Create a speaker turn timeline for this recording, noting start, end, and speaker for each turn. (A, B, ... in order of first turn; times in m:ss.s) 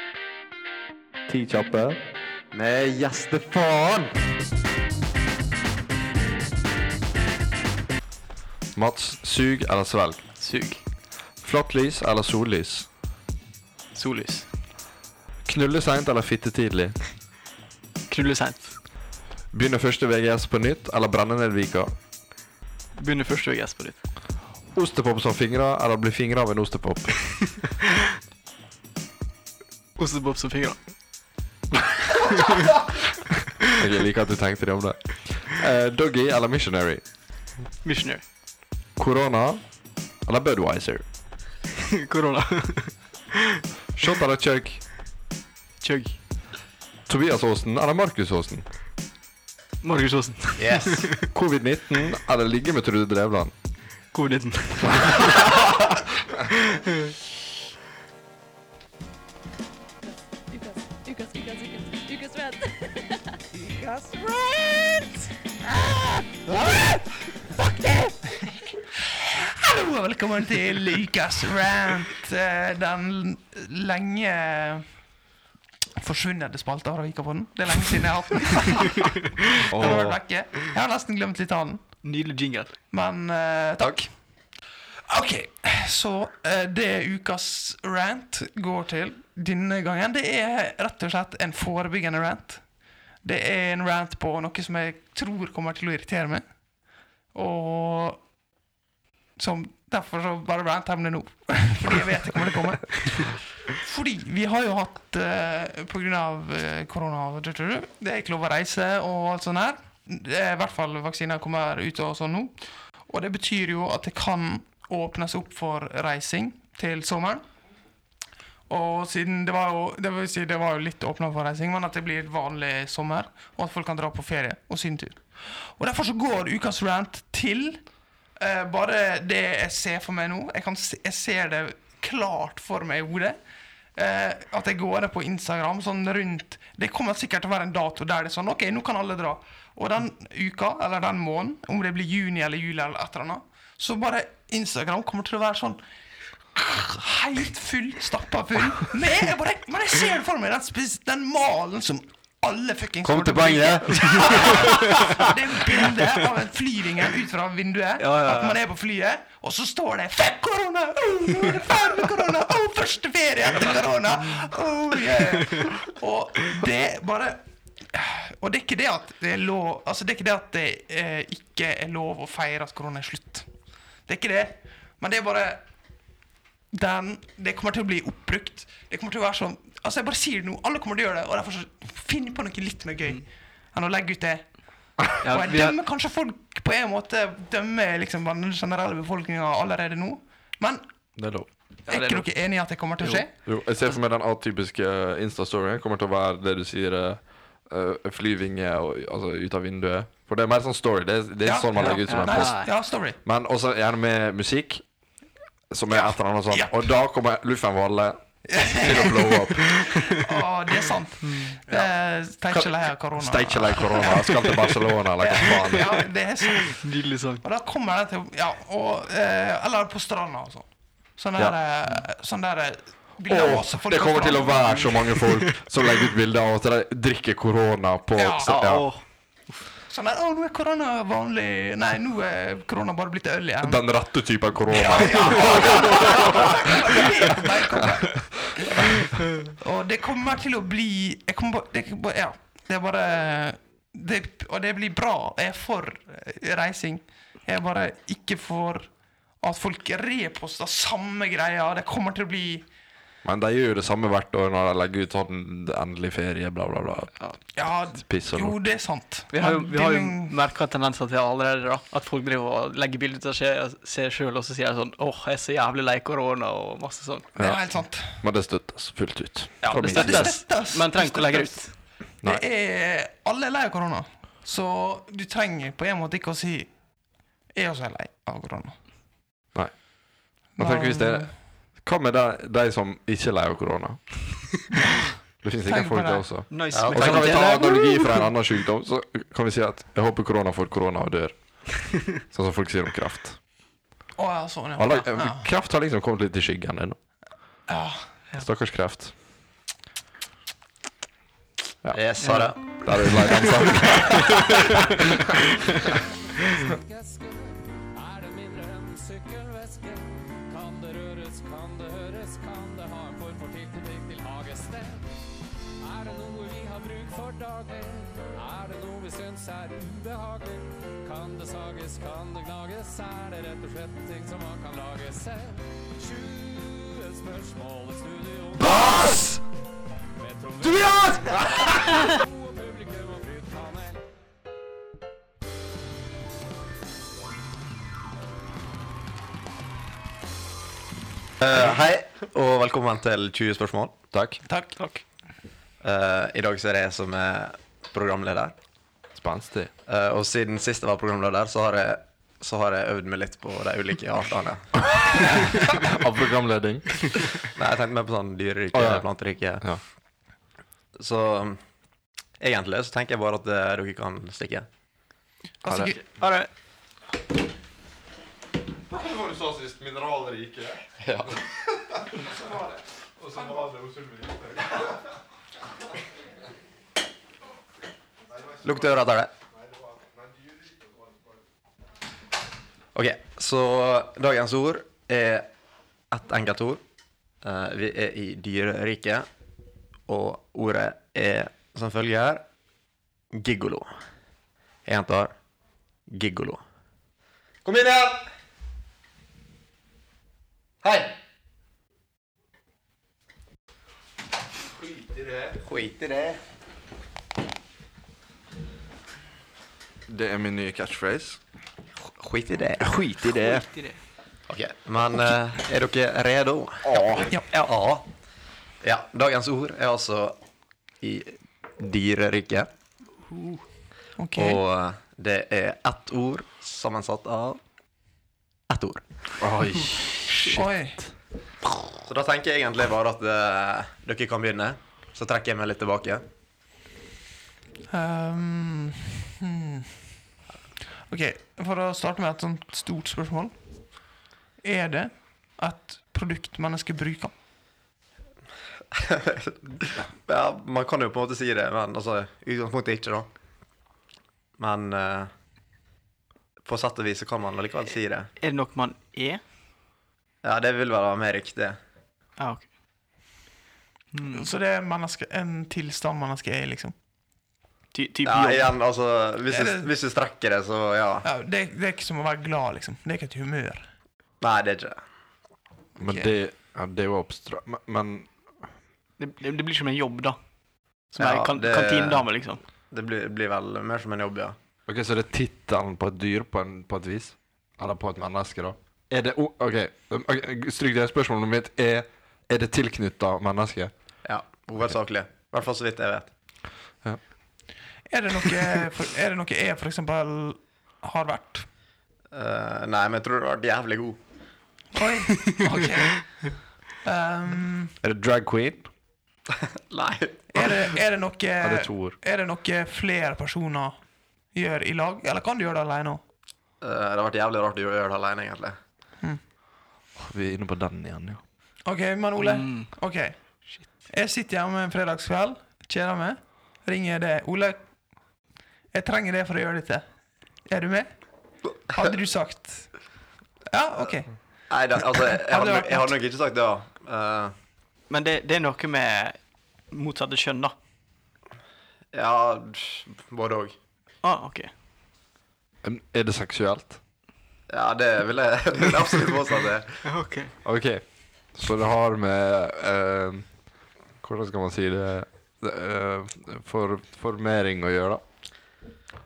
0:01.3-0:02.0 A
0:02.5-0:04.1 B
0:08.7-0:10.2 A
0:10.4-0:10.8 C
0:11.4-0:12.9 A
0:13.9-0:14.5 C
0:15.4-0:17.0 A
0:18.1-0:18.8 C
0:19.5-0:21.9 A
0:23.0-0:24.0 C
0:24.7-0:27.7 A
0:30.0-0:30.8 C
0:32.2-0:32.5 C
0:33.7-0:37.0 A
0:37.8-0:38.2 C
0:39.0-0:39.6 A
0:40.2-0:41.0 A
0:41.9-0:43.0 C
0:44.0-0:44.8 A
0:45.8-0:46.2 C
0:47.1-0:48.6 A
0:49.8-0:51.2 C
0:50.6-0:51.1 B
0:51.3-0:53.5 A
0:54.1-0:55.7 C
0:56.5-0:57.1 C
1:00.0-1:03.4 D
1:03.6-1:07.0 E
1:07.6-1:14.9 E
1:16.0-1:21.8 E
1:19.7-1:20.2 A
1:22.0-1:22.7 C
1:22.9-1:24.1 E
1:25.1-1:32.6 E
1:33.2-1:36.4 E
1:37.3-1:38.2 E
1:39.4-1:52.5 E
1:53.0-1:57.4 E
1:58.7-2:07.8 E
2:08.4-2:13.4 E
2:13.9-2:25.8 E
2:26.5-2:47.4 E
2:33.0-2:35.2 B
2:38.0-2:38.6 C
2:47.9-2:53.5 E
2:54.0-2:55.6 E
2:56.7-3:10.8 E
3:05.2-3:05.8 C
3:11.2-3:11.5 A
3:11.9-3:12.3 C
3:11.9-3:13.3 E
3:13.4-3:24.8 A
3:21.4-3:23.2 E
3:21.8-3:22.7 C
3:25.7-3:30.2 A
3:25.9-3:26.8 E
3:28.4-3:34.2 E
3:31.2-3:31.6 C
3:32.5-3:36.1 A
3:35.2-3:36.9 E
3:36.6-3:37.4 C
3:37.4-3:45.0 E
3:43.3-3:48.9 A
3:45.2-3:45.5 C
3:48.2-3:48.5 E
3:48.4-3:49.6 C
3:49.9-3:53.8 E
3:53.6-3:58.9 A
3:54.7-4:08.9 E
4:09.4-4:12.6 E
4:13.2-4:17.2 A
4:17.5-4:20.3 E
4:18.0-4:18.6 A
4:19.3-4:27.3 C
4:27.4-4:30.4 A
4:27.4-4:28.2 E
4:29.6-4:31.8 C
4:29.8-4:36.7 E
4:37.5-4:38.7 E
4:39.5-4:44.6 A
4:40.6-4:41.3 E
4:45.4-4:53.4 A
4:45.6-4:46.3 E
4:46.5-4:48.3 C
4:46.7-4:47.5 B
4:54.2-4:55.5 E
4:54.8-4:57.0 A
4:57.7-4:58.0 E
4:58.4-4:59.1 A
5:01.8-5:05.4 A
5:01.9-5:02.8 B
5:02.2-5:04.5 C
5:05.9-5:15.1 F
5:15.8-5:29.1 F
5:28.6-5:29.4 A
5:30.2-5:34.0 F
5:30.6-5:32.0 A
5:41.4-5:44.0 B
5:44.1-5:44.4 A
5:44.4-5:44.8 E
5:45.8-5:48.6 B
5:49.1-5:49.7 A
5:49.9-5:55.4 B
5:54.8-5:57.4 A
5:57.5-5:59.6 B
5:58.7-5:59.1 A
6:01.0-6:01.6 B
6:02.4-6:04.7 B
6:05.6-6:06.0 E
6:05.6-6:05.9 A
6:05.8-6:06.5 C
6:08.9-6:10.8 A
6:11.0-6:11.4 B
6:12.1-6:14.9 A
6:18.6-6:19.3 B
6:20.3-6:20.6 A
6:22.9-6:25.5 B
6:26.1-6:26.8 B
6:27.4-6:29.3 B
6:30.1-6:32.4 B
6:33.3-6:33.9 B
6:34.8-6:35.3 B
6:36.1-6:36.6 B
6:37.6-6:38.3 B
6:40.8-6:41.1 B
6:44.8-6:45.6 A
6:45.5-6:46.4 B
6:50.1-6:51.4 A
6:52.0-6:52.9 B
6:52.8-6:53.7 A
6:53.4-6:54.0 C
6:54.5-6:58.0 B
6:56.8-6:57.3 A
6:58.8-7:00.4 B
7:01.0-7:02.7 B
7:03.3-7:03.6 C
7:04.2-7:04.6 E
7:04.4-7:07.6 B
7:08.7-7:09.0 B
7:09.4-7:11.1 A
7:10.5-7:11.0 E
7:12.1-7:16.2 B
7:17.9-7:20.1 E
7:21.1-7:23.5 E
7:24.6-7:27.3 E
7:28.9-7:33.3 B
7:34.6-7:35.3 B
7:36.6-7:38.3 B
7:38.4-7:39.4 C
7:40.4-7:41.8 B
7:42.4-7:42.7 C
7:44.1-7:44.5 C
7:44.2-7:46.9 E
7:47.9-7:48.7 C
7:48.2-7:51.2 B
7:49.5-7:49.9 E
7:51.2-7:53.9 E
7:54.4-7:55.0 B
7:56.0-7:56.3 E
7:56.0-7:58.3 A
7:59.2-8:00.4 C
8:01.1-8:02.6 C
8:01.2-8:02.3 B
8:02.9-8:04.6 B
8:04.9-8:13.9 A
8:14.2-8:16.3 B
8:18.1-8:21.6 E
8:22.3-8:24.2 B
8:24.9-8:27.9 E
8:28.0-8:28.9 A
8:29.9-8:30.7 B
8:30.5-8:34.0 E
8:31.6-8:32.2 A
8:34.5-8:36.2 E
8:36.8-8:38.8 B
8:40.2-8:41.4 A
8:41.8-8:47.8 E
8:42.4-8:42.9 C
8:48.9-8:50.0 E
8:50.6-8:51.2 E
8:51.9-8:52.9 E
8:53.7-8:54.3 E
8:54.7-8:57.5 B
8:55.2-8:56.1 E
8:58.1-9:00.7 C
9:02.1-9:03.7 B
9:04.2-9:04.7 C
9:05.8-9:07.0 A
9:07.7-9:10.0 B
9:10.0-9:10.5 C
9:10.6-9:13.5 A
9:14.2-9:18.2 A